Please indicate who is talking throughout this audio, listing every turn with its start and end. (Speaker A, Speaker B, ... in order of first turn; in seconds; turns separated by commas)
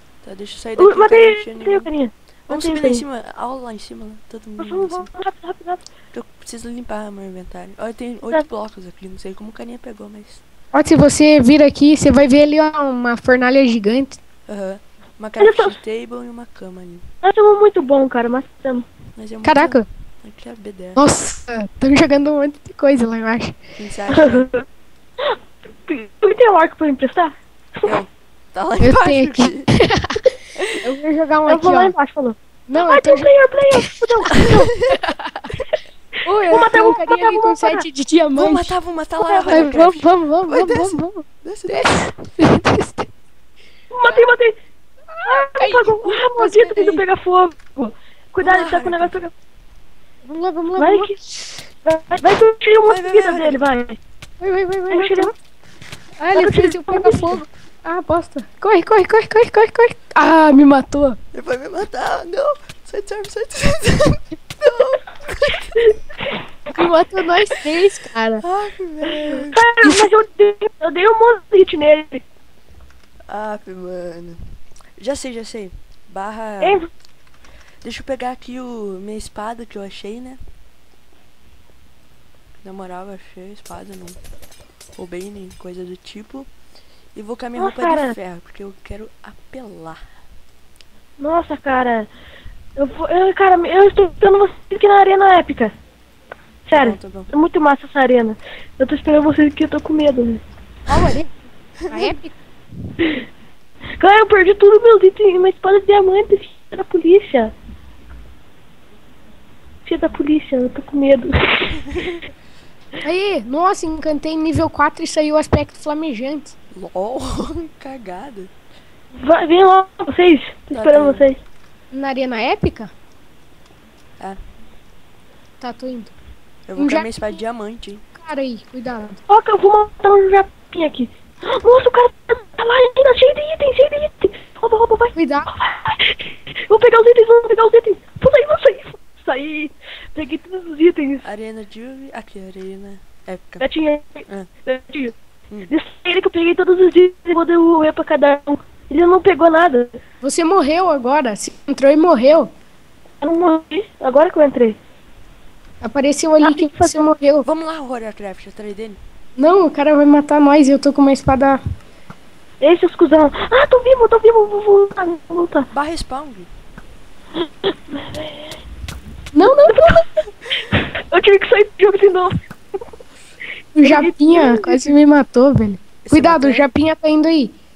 Speaker A: 0.2-1.9, Speaker B: 0.8-3.0, Speaker A: 2.5-5.1, Speaker B: 4.6-5.8, Speaker A: 6.1-10.4, Speaker C: 10.7-14.2, Speaker A: 14.5-17.1, Speaker B: 15.4-15.8, Speaker B: 17.2-18.9, Speaker A: 19.1-21.0, Speaker C: 19.4-19.8, Speaker C: 20.9-23.6, Speaker A: 23.8-24.5, Speaker B: 24.1-24.6, Speaker B: 25.2-27.9, Speaker A: 27.8-29.7, Speaker C: 28.8-30.2, Speaker C: 30.8-31.9, Speaker B: 31.5-34.7, Speaker C: 32.7-33.9, Speaker A: 34.4-35.0, Speaker C: 34.9-35.4, Speaker C: 36.2-38.7, Speaker B: 36.5-37.8, Speaker A: 38.3-42.1, Speaker B: 39.2-39.9, Speaker C: 39.5-43.1, Speaker B: 43.9-44.6, Speaker C: 45.1-47.0, Speaker B: 45.3-49.3, Speaker A: 48.4-49.2, Speaker C: 50.2-51.6, Speaker B: 50.8-51.1, Speaker B: 51.8-54.0, Speaker A: 52.8-53.6, Speaker C: 54.4-55.3, Speaker B: 54.9-55.3, Speaker C: 56.2-61.2, Speaker B: 56.3-57.4, Speaker A: 61.3-65.8, Speaker B: 65.8-66.4, Speaker C: 66.7-68.4, Speaker A: 68.4-69.6, Speaker B: 69.5-72.2, Speaker A: 73.3-74.4, Speaker A: 75.0-76.8, Speaker B: 76.6-76.9, Speaker A: 77.8-80.4, Speaker A: 82.6-84.2, Speaker A: 84.9-86.5, Speaker A: 87.1-90.0, Speaker B: 87.6-88.1, Speaker B: 91.2-92.1, Speaker B: 92.8-95.7, Speaker B: 96.7-100.4, Speaker A: 96.7-97.3, Speaker C: 100.9-101.3, Speaker C: 101.9-102.3, Speaker B: 104.0-107.5, Speaker B: 109.8-111.8, Speaker A: 111.9-112.2, Speaker C: 113.0-116.5, Speaker A: 116.7-118.5, Speaker B: 119.1-121.4, Speaker A: 120.7-121.3, Speaker C: 121.9-122.9, Speaker C: 125.6-126.1, Speaker A: 126.7-128.0, Speaker C: 126.8-127.1, Speaker C: 128.2-129.2, Speaker B: 129.3-141.2, Speaker C: 135.1-135.5, Speaker A: 141.2-143.7, Speaker B: 143.6-145.1, Speaker B: 145.7-150.0, Speaker C: 150.2-152.5, Speaker B: 153.2-154.8, Speaker C: 155.8-157.4, Speaker B: 156.4-157.0, Speaker A: 157.4-159.0, Speaker C: 159.4-161.6, Speaker B: 162.6-165.7, Speaker A: 165.7-166.5, Speaker B: 167.4-168.6, Speaker C: 169.3-170.0, Speaker B: 169.4-172.4, Speaker C: 173.8-177.5, Speaker B: 173.8-174.8, Speaker A: 176.0-176.7